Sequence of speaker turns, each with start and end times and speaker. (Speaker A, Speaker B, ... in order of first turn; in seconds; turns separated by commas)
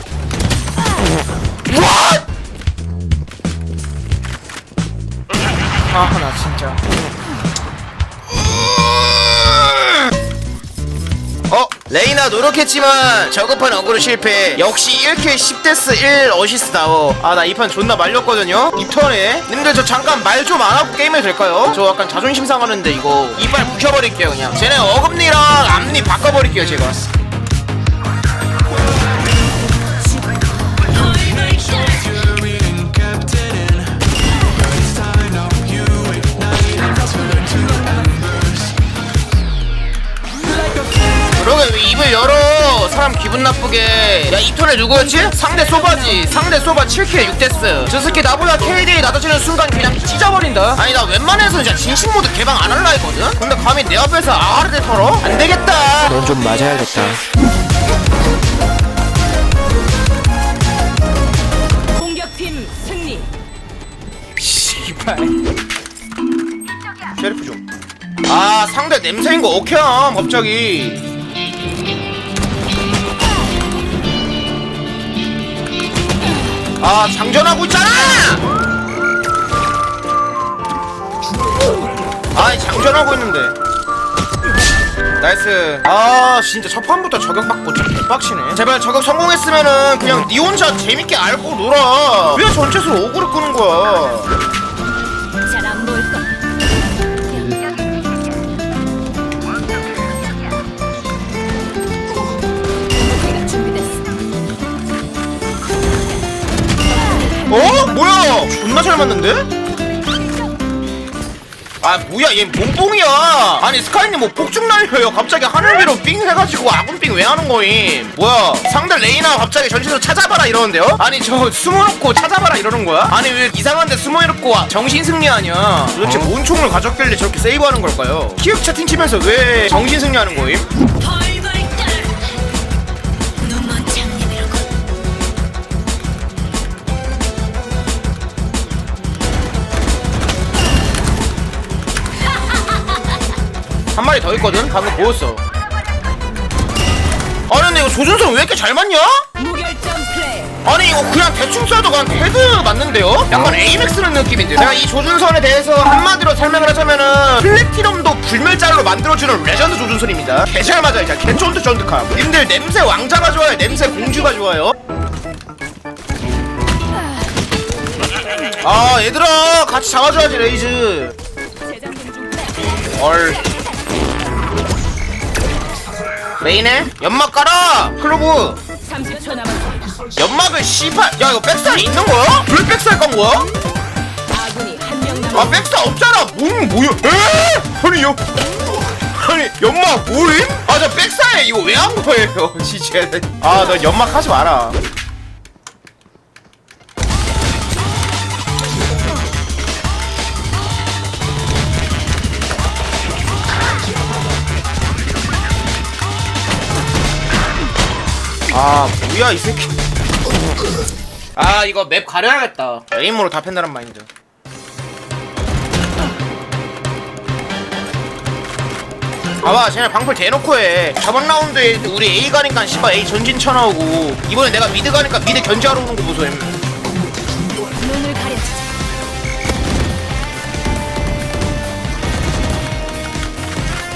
Speaker A: 1.7-2.2, Speaker A: 5.9-6.8, Speaker A: 8.3-10.1, Speaker A: 11.5-27.0, Speaker B: 37.0-37.7, Speaker A: 41.4-57.2, Speaker B: 62.0-63.3, Speaker A: 64.4-65.3, Speaker A: 67.2-67.6, Speaker A: 68.3-71.0, Speaker A: 76.8-78.4, Speaker A: 82.3-83.5, Speaker A: 85.2-94.3, Speaker B: 95.5-96.2, Speaker B: 103.0-104.0, Speaker A: 107.5-109.5, Speaker A: 111.8-130.7, Speaker B: 131.2-131.8, Speaker B: 133.7-134.4, Speaker A: 144.0-145.4, Speaker A: 147.5-149.2, Speaker B: 149.4-150.5, Speaker A: 150.6-164.8, Speaker A: 168.6-171.1, Speaker B: 172.1-172.3, Speaker A: 172.9-173.5, Speaker A: 176.4-178.6, Speaker B: 179.0-179.9, Speaker A: 180.1-183.5, Speaker B: 184.3-185.4, Speaker A: 185.3-188.3, Speaker A: 189.1-194.8, Speaker A: 208.5-209.7, Speaker A: 211.4-214.1, Speaker A: 219.4-226.6, Speaker B: 227.9-228.5